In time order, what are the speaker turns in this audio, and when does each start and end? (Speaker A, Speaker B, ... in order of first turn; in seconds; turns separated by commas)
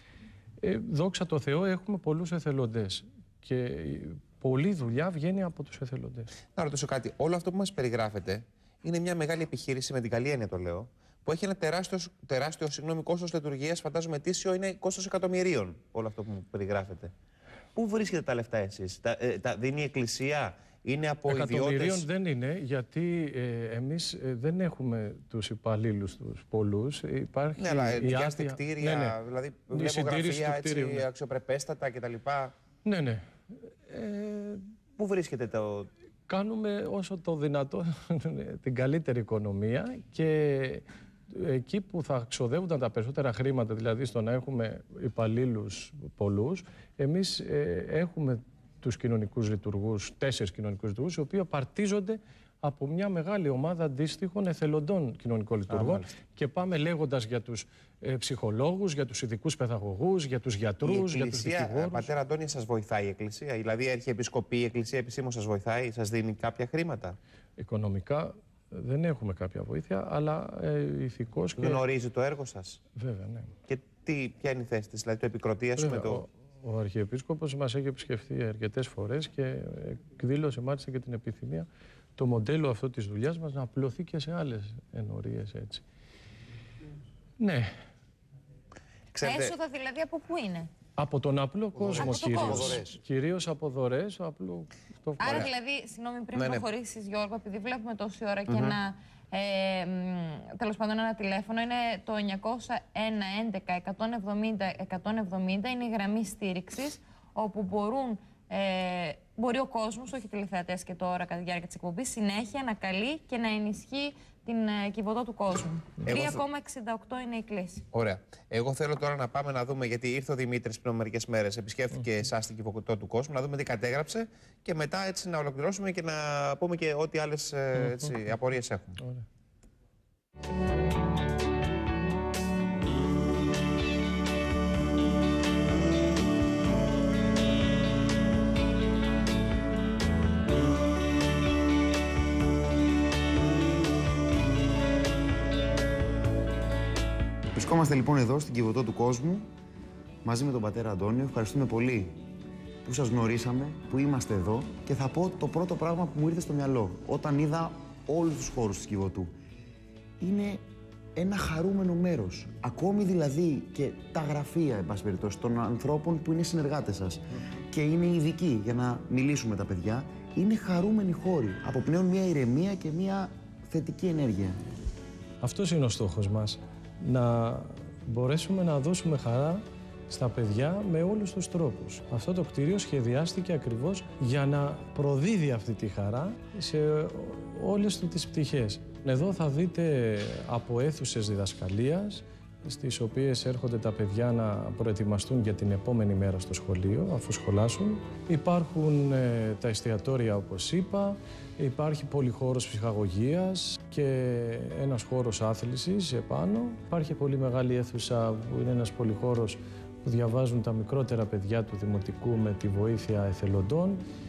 Speaker A: 0.6-6.3, Speaker B: 6.5-17.1, Speaker B: 17.7-22.1, Speaker A: 21.3-29.2, Speaker B: 27.6-32.5, Speaker A: 29.7-31.1, Speaker A: 32.8-33.2, Speaker A: 33.9-34.6, Speaker B: 35.0-35.9, Speaker A: 36.3-62.1, Speaker B: 55.7-56.1, Speaker B: 60.8-67.2, Speaker A: 67.6-71.8, Speaker B: 71.6-72.8, Speaker A: 72.9-73.5, Speaker B: 73.7-76.2, Speaker A: 75.8-85.8, Speaker A: 87.4-87.7, Speaker B: 89.1-89.5, Speaker C: 89.2-90.7, Speaker A: 91.0-95.5, Speaker D: 91.8-93.0, Speaker C: 91.9-92.8, Speaker C: 95.2-117.8, Speaker B: 95.2-95.5, Speaker B: 96.3-96.7, Speaker B: 98.5-98.8, Speaker B: 116.0-116.4, Speaker B: 117.9-129.0, Speaker A: 127.8-128.2, Speaker A: 129.0-129.2, Speaker D: 147.5-149.5, Speaker D: 150.2-152.2, Speaker D: 152.8-159.3, Speaker D: 160.2-160.6, Speaker D: 161.2-174.6, Speaker A: 175.4-214.0